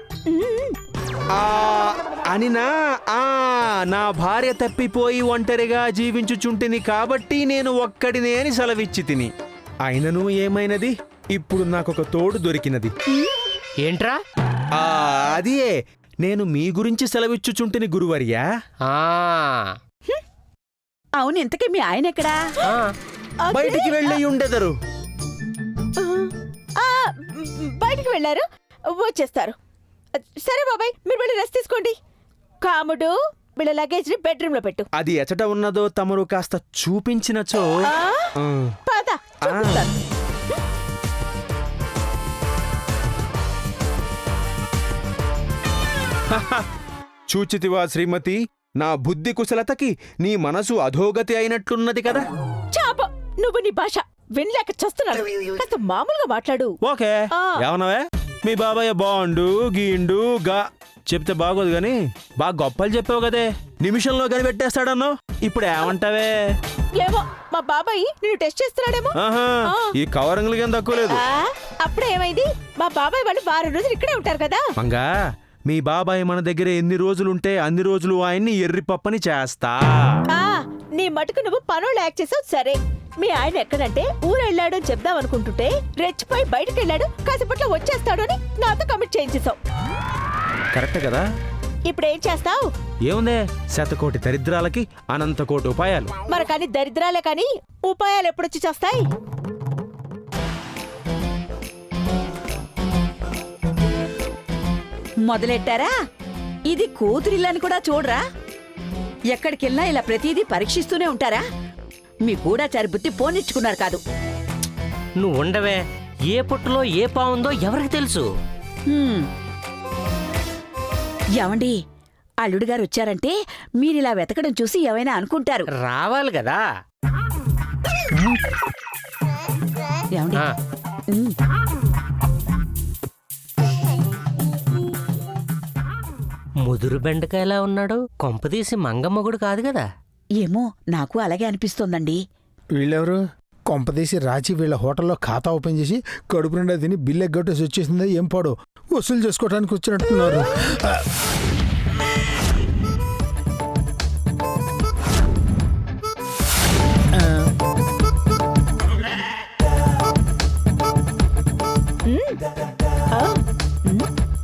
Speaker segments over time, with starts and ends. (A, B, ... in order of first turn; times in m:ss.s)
0:00.3-0:00.8 A
0:01.3-0:09.3 B
0:09.8-0:12.9 B
0:13.8-0:14.2 C
0:14.8-0:15.7 B
0:16.2-0:18.4 B
0:18.9-0:19.8 C
0:21.2-0:22.4 D
0:22.6-0:22.9 C
0:23.4-0:24.1 A
0:23.5-0:24.7 B
0:26.0-0:29.5 A
0:30.4-0:32.0 A
0:32.6-0:34.8 A
0:35.0-0:37.7 B
0:37.8-0:38.3 A
0:38.4-0:38.7 B
0:38.9-0:40.0 A
0:39.4-0:39.9 B
0:46.3-0:46.7 B
0:47.3-0:52.2 B
0:52.7-0:56.8 A
0:56.8-1:06.3 B
1:07.0-1:09.2 A
1:09.2-1:11.2 B
1:11.1-1:14.7 A
1:14.8-1:15.1 B
1:15.7-1:20.2 B
1:20.3-1:29.6 A
1:30.7-1:31.2 B
1:31.9-1:32.7 A
1:33.0-1:36.1 B
1:36.3-1:39.0 A
1:45.2-1:45.9 D
1:46.7-1:48.2 D
1:49.3-1:51.4 D
1:52.2-1:54.0 D
1:55.2-1:58.2 C
1:58.9-1:59.3 D
2:01.4-2:01.8 D
2:02.4-2:05.7 D
2:05.8-2:06.6 C
2:10.1-2:10.4 D
2:11.1-2:11.4 D
2:16.6-2:19.8 C
2:20.4-2:22.2 D
2:22.8-2:31.1 E
2:37.1-2:37.5 E
2:42.1-2:42.4 A
2:43.1-2:44.1 A